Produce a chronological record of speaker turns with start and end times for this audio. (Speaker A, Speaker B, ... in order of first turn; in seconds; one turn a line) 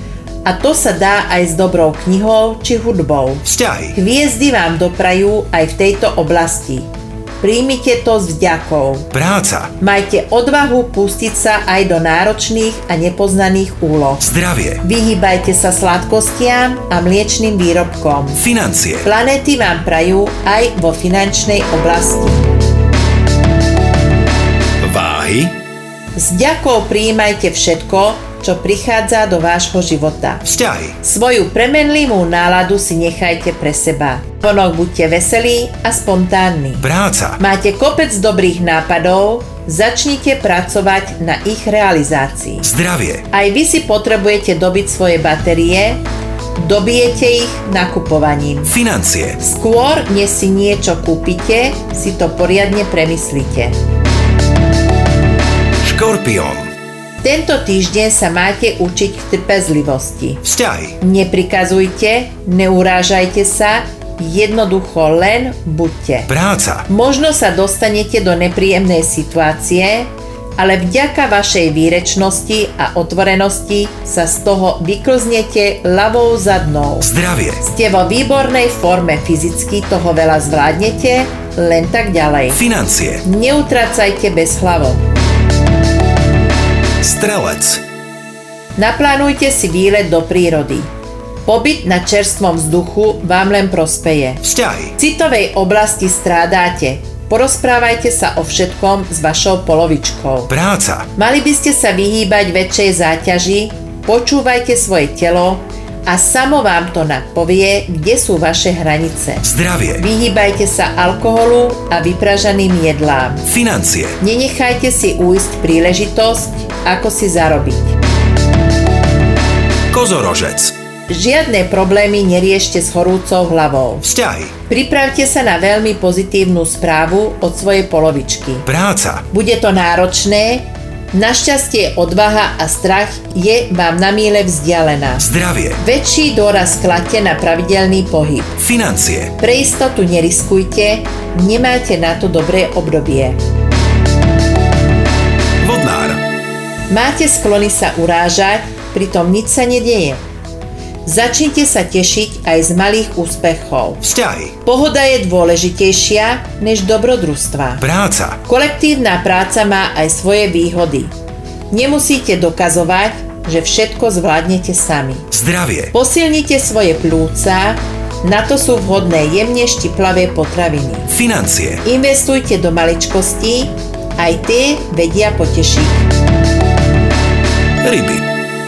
Speaker A: 0.4-6.9
Speaker B: 3.4-4.0
Speaker A: 7.4-9.1
Speaker B: 9.1-9.7
Speaker A: 9.8-14.2
Speaker B: 14.2-14.8
Speaker A: 14.8-18.4
Speaker B: 18.4-19.1
Speaker A: 19.0-22.5
Speaker B: 24.8-25.5
Speaker A: 26.2-30.4
Speaker B: 30.4-31.0
Speaker A: 31.0-36.9
Speaker B: 36.8-37.4
Speaker A: 37.4-42.7
Speaker B: 42.6-43.2
Speaker A: 43.3-46.0
Speaker A: 46.5-48.7
Speaker B: 48.7-49.4
Speaker A: 49.4-53.8
Speaker B: 55.8-56.7
Speaker A: 57.2-60.4
Speaker B: 60.4-61.0
Speaker A: 61.0-66.3
Speaker B: 66.3-66.9
Speaker A: 66.9-77.1
Speaker B: 77.0-77.6
Speaker A: 77.6-82.6
Speaker B: 82.5-83.2
Speaker A: 83.2-85.0
Speaker B: 87.0-87.8
Speaker A: 88.8-90.9
Speaker A: 91.5-94.4
Speaker B: 94.4-94.9
Speaker A: 95.0-100.5
Speaker B: 100.5-101.1
Speaker A: 101.2-109.4
Speaker B: 109.4-110.0
Speaker A: 110.0-113.4
Speaker B: 113.4-114.2
Speaker A: 114.2-118.0
Speaker B: 119.9-120.7
Speaker A: 121.1-124.1
Speaker B: 124.0-124.5
Speaker A: 124.7-128.7
Speaker B: 128.7-129.2
Speaker A: 129.3-135.3
Speaker B: 135.2-135.8
Speaker A: 135.8-138.6
Speaker B: 138.6-139.3
Speaker A: 139.4-143.4
Speaker B: 145.6-146.2
Speaker A: 146.9-150.2
Speaker A: 151.1-154.0
Speaker B: 154.0-154.6
Speaker A: 154.6-157.8
Speaker B: 157.8-158.4
Speaker A: 158.4-161.1
Speaker A: 161.7-165.3
Speaker B: 165.3-165.9
Speaker A: 165.9-171.1
Speaker B: 171.1-171.8
Speaker A: 171.8-176.1
Speaker B: 177.8-178.2